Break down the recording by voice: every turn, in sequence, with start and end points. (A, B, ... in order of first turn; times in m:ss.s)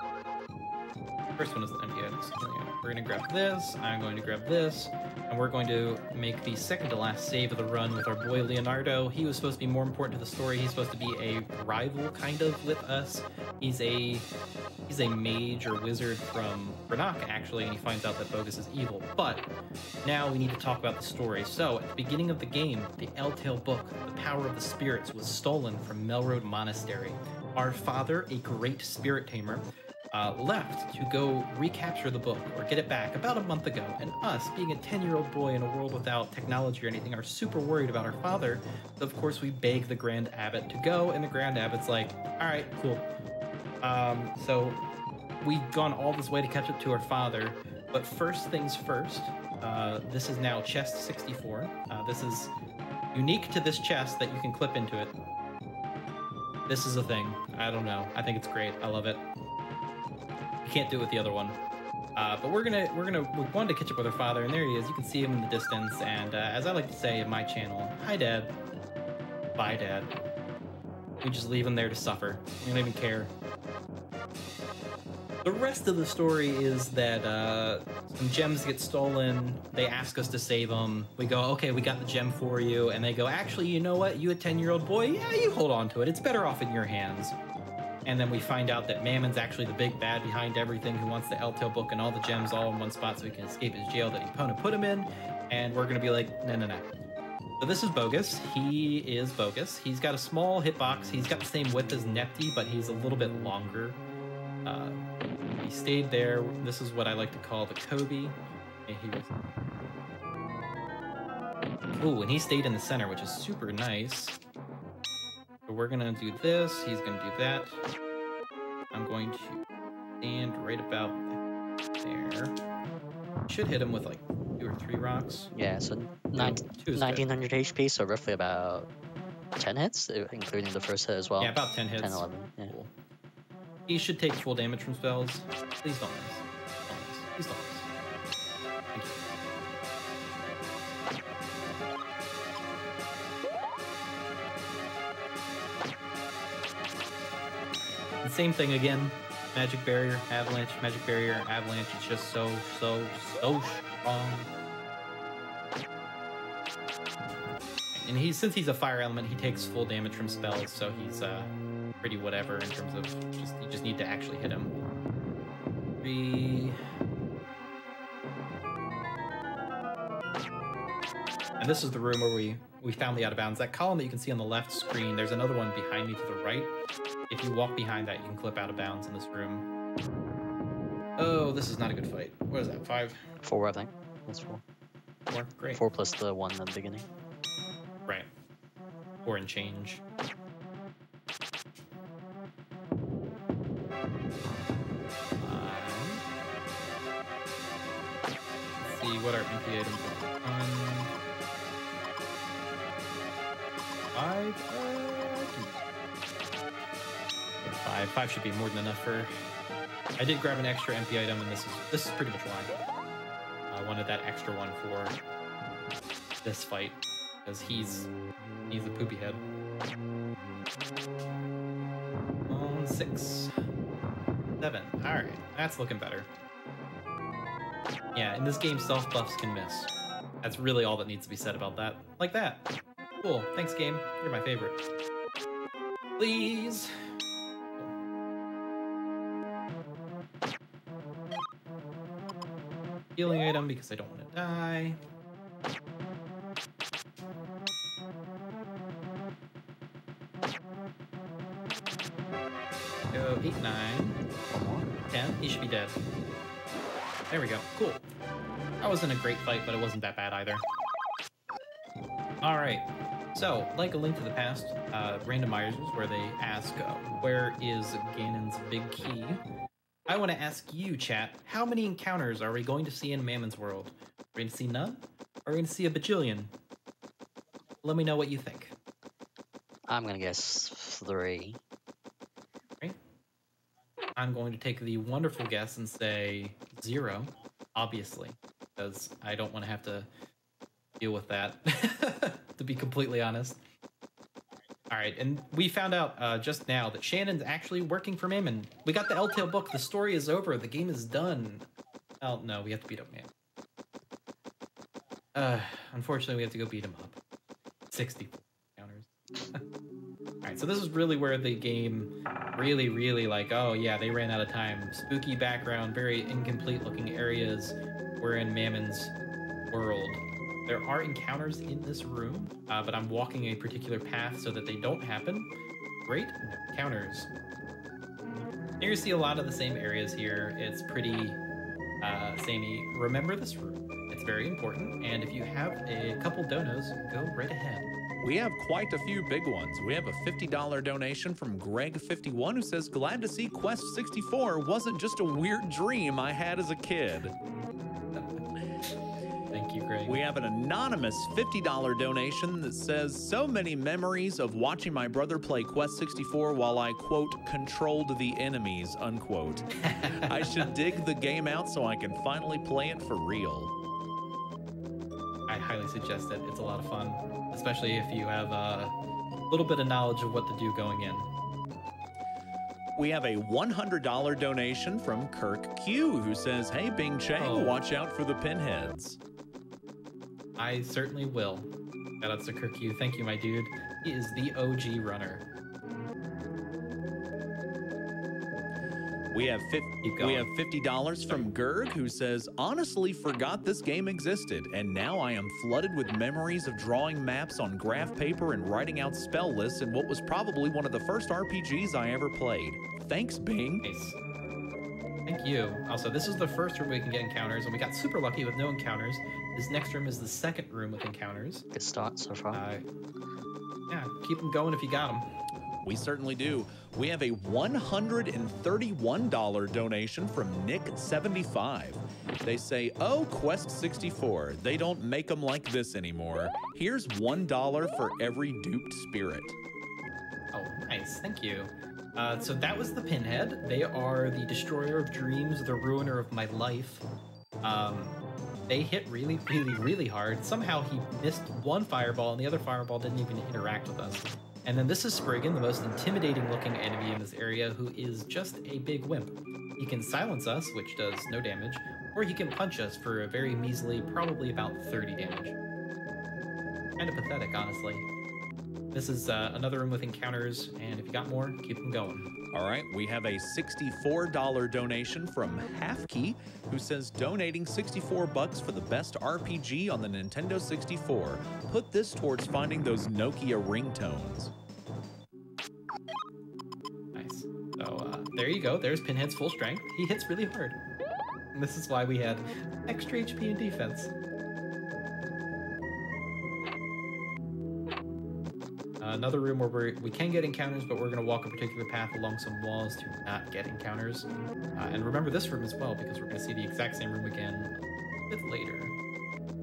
0:01.3-0:14.3 A
0:14.9-0:19.5 A
0:20.0-0:43.1 A
0:43.8-0:44.8 A
0:45.4-0:52.5 A
0:53.1-0:55.2 A
0:56.7-0:59.2 A
1:00.6-1:01.6 A
1:02.2-1:08.6 A
1:09.6-1:10.1 A
1:11.2-1:13.3 A
1:15.4-1:27.4 A
1:28.0-1:36.9 A
1:37.6-1:44.0 A
1:44.6-1:49.3 A
1:52.0-1:54.4 A
1:55.6-1:57.8 A
1:58.9-1:59.6 A
2:00.2-2:01.4 A
2:02.0-2:02.5 A
2:03.5-2:05.5 A
2:05.5-2:08.9 B
2:06.3-2:07.3 A
2:09.6-2:12.7 B
2:11.4-2:12.9 A
2:13.9-2:17.9 A
2:28.2-2:34.5 A
2:37.9-2:44.8 A
2:46.0-2:46.8 A
2:51.6-2:56.7 A
2:57.3-2:59.7 A
3:01.2-3:03.2 A
3:03.4-3:04.6 B
3:05.3-3:05.8 A
3:05.7-3:07.1 B
3:09.2-3:10.0 A
3:15.4-3:16.2 A
3:18.8-3:21.1 A
3:24.1-3:25.7 A
3:27.6-3:29.3 A
3:30.2-3:32.7 A
3:33.7-3:35.2 A
3:36.4-3:38.1 A
3:38.7-3:39.4 A
3:42.5-3:43.5 A
3:44.6-3:46.3 A
3:48.1-3:49.9 A
3:50.4-3:52.7 A
3:53.2-3:54.8 A
3:56.2-3:57.1 A
4:03.2-4:05.0 A
4:13.1-4:14.2 A
4:14.5-4:14.9 B
4:15.1-4:16.0 A
4:17.3-4:18.0 A
4:18.8-4:20.6 A
4:22.4-4:29.4 A
4:30.1-4:36.5 A
4:37.8-4:38.7 A
4:39.9-4:41.6 B
4:44.2-4:50.1 A
4:51.0-4:53.6 A
4:54.9-5:01.6 A
5:02.2-5:03.3 A
5:05.3-5:07.2 A
5:07.9-5:09.6 A
5:10.4-5:19.1 A
5:19.7-5:25.5 A
5:26.1-5:27.3 A
5:28.8-5:31.4 A
5:32.0-5:37.9 A
5:38.2-5:47.4 C
5:49.5-5:50.2 A
5:50.0-6:03.7 C
5:59.8-6:00.7 A
6:05.5-6:08.9 A
6:09.5-6:11.3 A
6:13.0-6:19.2 C
6:17.4-6:17.8 A
6:20.6-6:25.4 A
6:29.3-6:43.8 C
6:30.0-6:30.5 A
6:43.8-6:44.2 A
6:45.3-6:51.6 A
6:51.7-6:52.6 B
6:52.5-6:52.8 A
6:53.9-6:55.3 A
6:55.8-7:09.6 C
7:10.5-7:17.0 A
7:17.6-7:18.2 A
7:18.7-7:35.6 A
7:37.0-7:38.1 A
7:38.9-7:42.3 A
7:42.5-7:54.5 C
7:57.1-8:00.8 A
8:01.5-8:04.1 A
8:09.0-8:18.9 A